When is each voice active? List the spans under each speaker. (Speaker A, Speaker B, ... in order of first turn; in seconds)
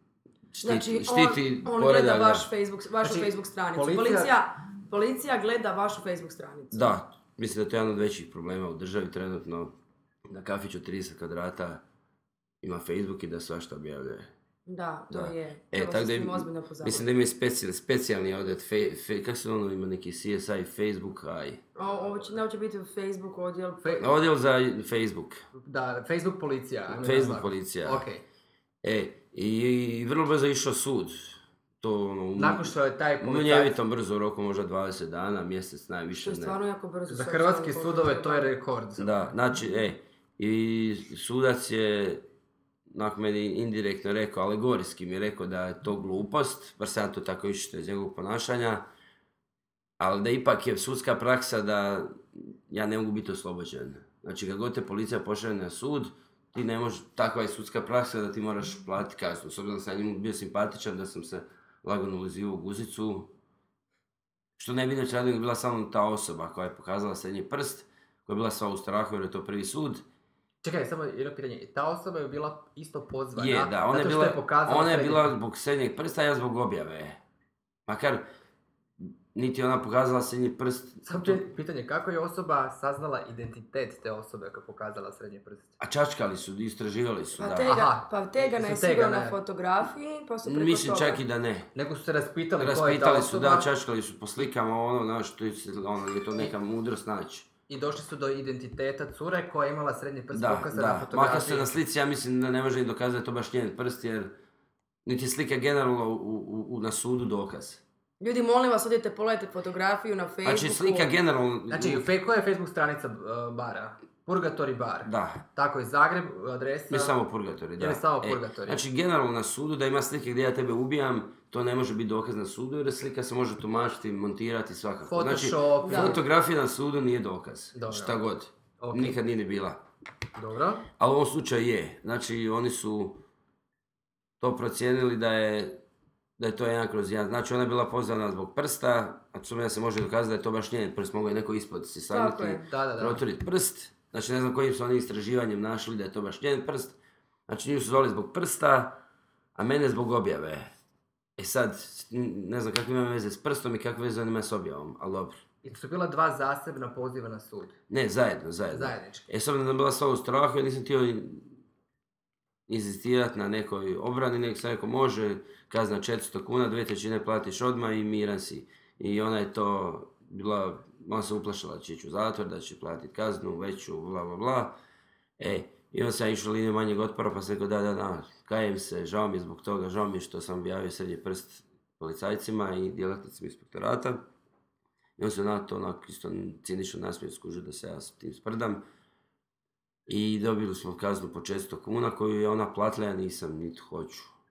Speaker A: 0.5-2.5, 6.7-9.7, 10.3-11.8, 12.6-14.3, 15.1-21.7, 24.0-25.4, 26.9-28.1, 28.8-36.6, 39.0-42.2, 42.9-48.9, 50.0-63.3, 64.6-70.0, 73.3-77.2, 77.9-78.2, 79.0-81.4, 85.8-87.7, 90.4-91.7, 92.6-97.5, 100.3-104.3, 105.0-107.8, 110.4-112.1, 115.0-115.4, 116.9-129.8, 131.0-133.2, 134.4-135.8, 136.4-149.0, 149.6-150.7, 151.4-155.4, 157.9-161.6, 162.7-174.8, 175.4-184.2, 185.2-188.8, 190.1-194.3
Speaker B: 0.6-6.9, 14.7-17.1, 21.8-24.1, 36.2-38.5, 87.4-91.2, 108.2-111.1, 125.8-126.2, 142.1-142.7
Speaker C: 3.0-4.3, 23.8-24.1, 25.6-28.2, 32.4-33.8, 37.1-39.2, 70.6-75.3, 81.0-85.7, 87.6-89.3, 91.7-93.7, 97.7-101.7, 111.7-117.1, 117.8-118.8, 125.0-126.2, 127.7-128.2, 128.8-129.2, 130.3-130.9, 142.7-143.2, 155.6-157.7, 158.7-159.3